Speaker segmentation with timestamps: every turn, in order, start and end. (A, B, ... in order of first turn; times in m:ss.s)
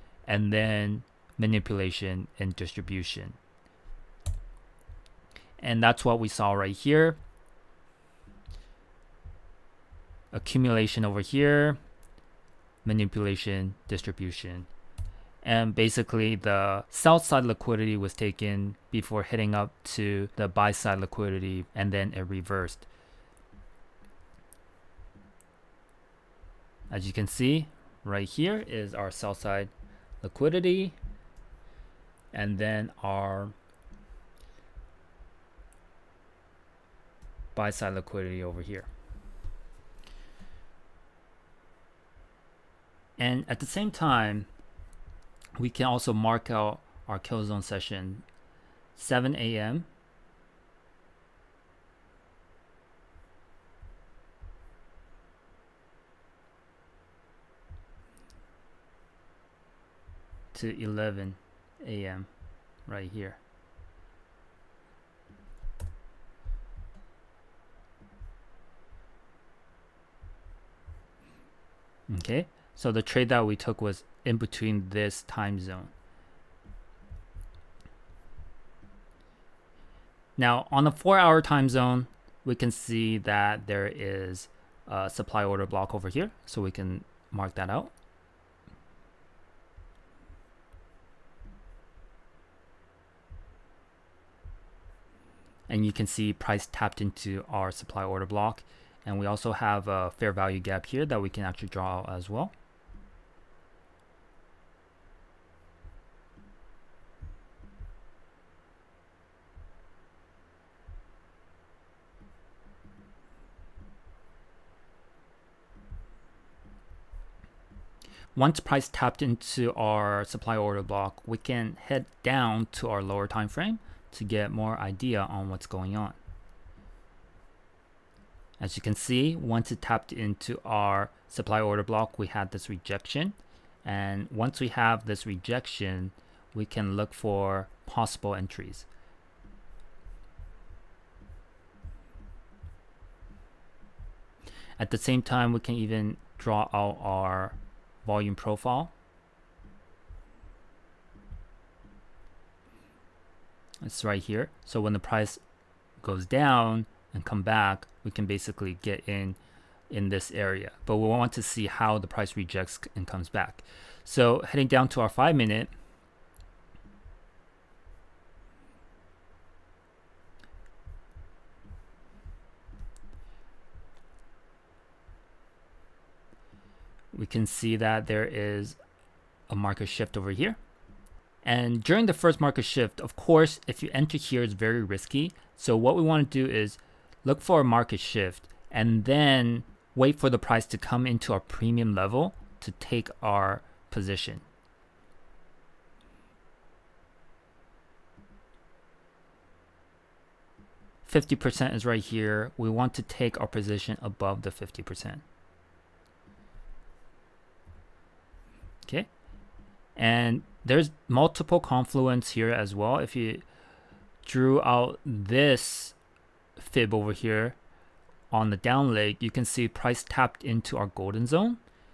0:00.3-0:03.4 A
0:05.6-0:07.2 A
0:10.3-0:11.8 A
0:12.8-0:14.7 A
0:15.4-0:22.9 A
0:26.9-0:31.0 A
0:32.3-0:33.5 A
0:37.5-0:38.9 A
0:43.2-0:44.5 A
0:45.6-0:48.2 A
0:48.9-0:49.9 A
1:00.5-1:02.3 A
1:02.9-1:03.4 A
1:12.1-1:15.9 A
1:20.4-1:27.9 A
1:35.7-1:42.5 A
1:58.3-2:06.2 A
2:08.6-2:18.9 A
2:24.8-2:28.9 A
2:33.8-2:35.4 A
2:36.0-2:39.4 A
2:39.9-2:45.7 A
2:57.1-2:58.8 A
2:59.5-3:00.6 A
3:01.4-3:14.4 A
3:21.0-3:25.2 A
3:30.0-3:33.4 A
3:34.2-3:36.0 A
3:36.6-3:37.6 A
3:38.3-3:41.6 A